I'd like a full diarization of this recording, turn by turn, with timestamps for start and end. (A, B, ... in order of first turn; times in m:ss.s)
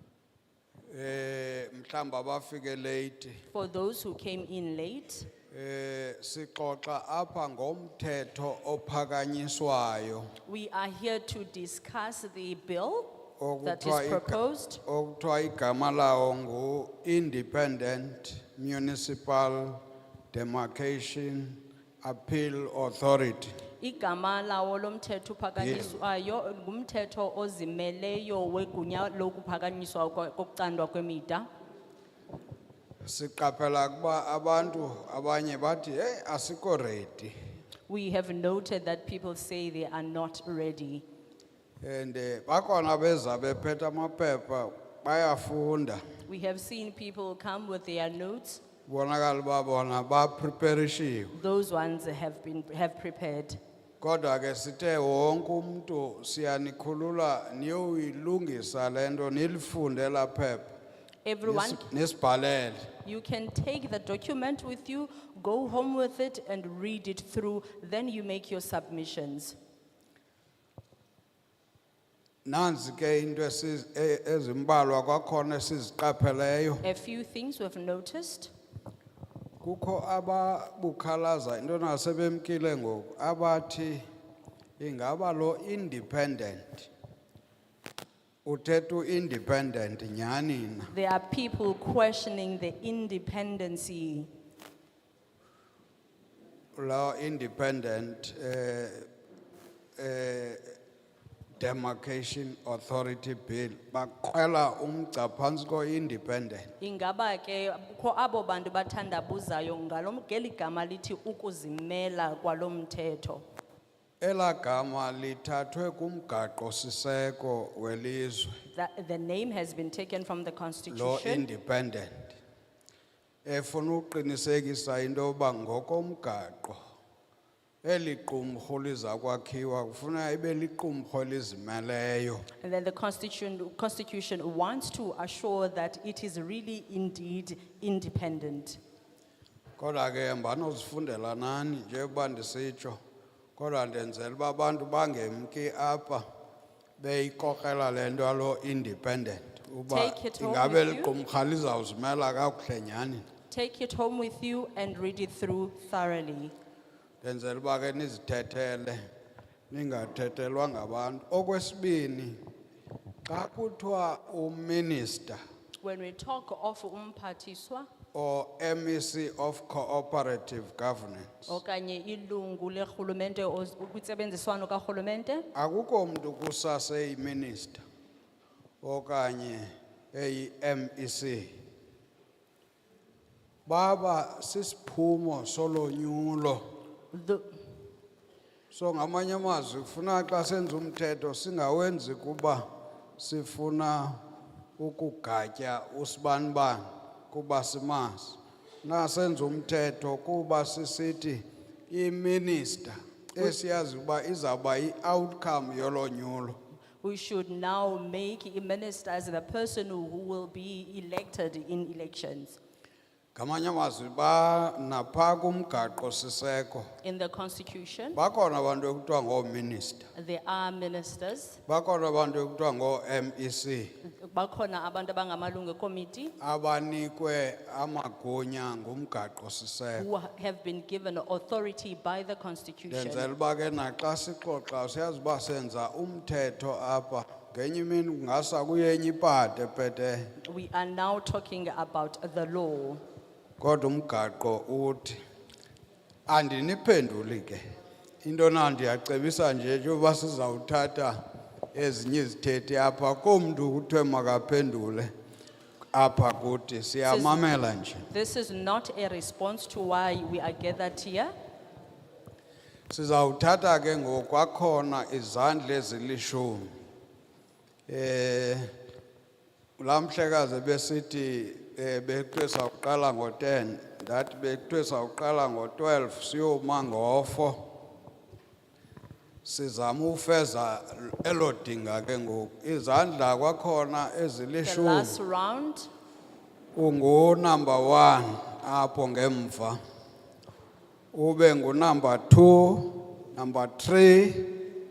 0:00.9-0:03.4 A
0:03.5-0:05.3 B
0:05.5-0:10.3 A
0:10.4-0:14.8 B
0:13.4-0:23.5 A
0:23.8-0:31.5 B
0:25.6-0:26.0 A
0:33.0-0:37.3 A
0:37.9-0:41.0 B
0:41.8-0:46.0 A
0:46.3-0:48.6 B
0:48.9-0:51.3 A
0:51.3-0:53.6 B
0:54.0-1:00.8 A
1:01.2-1:01.8 B
1:01.4-1:02.9 A
1:03.0-1:09.6 B
1:12.4-1:16.8 A
1:16.8-1:18.5 B
1:19.6-1:24.0 A
1:24.8-1:26.9 A
1:28.4-1:30.9 A
1:30.9-1:34.3 B
1:36.8-1:39.1 A
1:40.0-1:40.7 A
1:41.6-1:46.7 A
1:46.8-1:53.4 B
1:54.2-1:58.5 A
1:58.7-2:01.4 B
2:00.9-2:02.4 A
2:03.4-2:06.8 A
2:07.8-2:12.4 A
2:12.6-2:18.8 B
2:19.8-2:23.0 A
2:23.6-2:26.2 A
2:27.0-2:33.3 A
2:29.9-2:31.1 B
2:33.5-2:36.5 B
2:37.2-2:39.0 A
2:39.7-2:42.4 A
2:43.2-2:45.4 A
2:45.8-2:47.9 B
2:48.1-2:51.5 A
2:51.5-2:55.5 B
2:55.5-2:57.8 A
2:58.8-3:01.5 A
3:03.6-3:06.6 A
3:07.1-3:07.5 B
3:08.7-3:12.6 A
3:13.2-3:14.2 A
3:14.8-3:26.6 A
3:27.0-3:32.6 B
3:33.3-3:36.9 A
3:37.0-3:38.2 B
3:38.1-3:40.1 A
3:40.1-3:41.6 B
3:41.7-3:43.9 A
3:44.0-3:46.3 B
3:46.4-3:50.1 A
3:50.0-3:53.3 B
3:52.9-4:00.3 A
4:00.4-4:03.0 B
4:03.6-4:05.2 A
4:06.3-4:07.6 A
4:08.2-4:11.2 A
4:11.7-4:15.1 A
4:15.9-4:18.1 A
4:17.1-4:17.5 B
4:18.1-4:21.3 B
4:22.9-4:26.7 A
4:27.9-4:28.7 A
4:29.8-4:37.6 A
4:39.4-4:45.2 A
4:44.6-4:45.9 B
4:46.8-4:49.8 A
4:51.1-4:54.7 A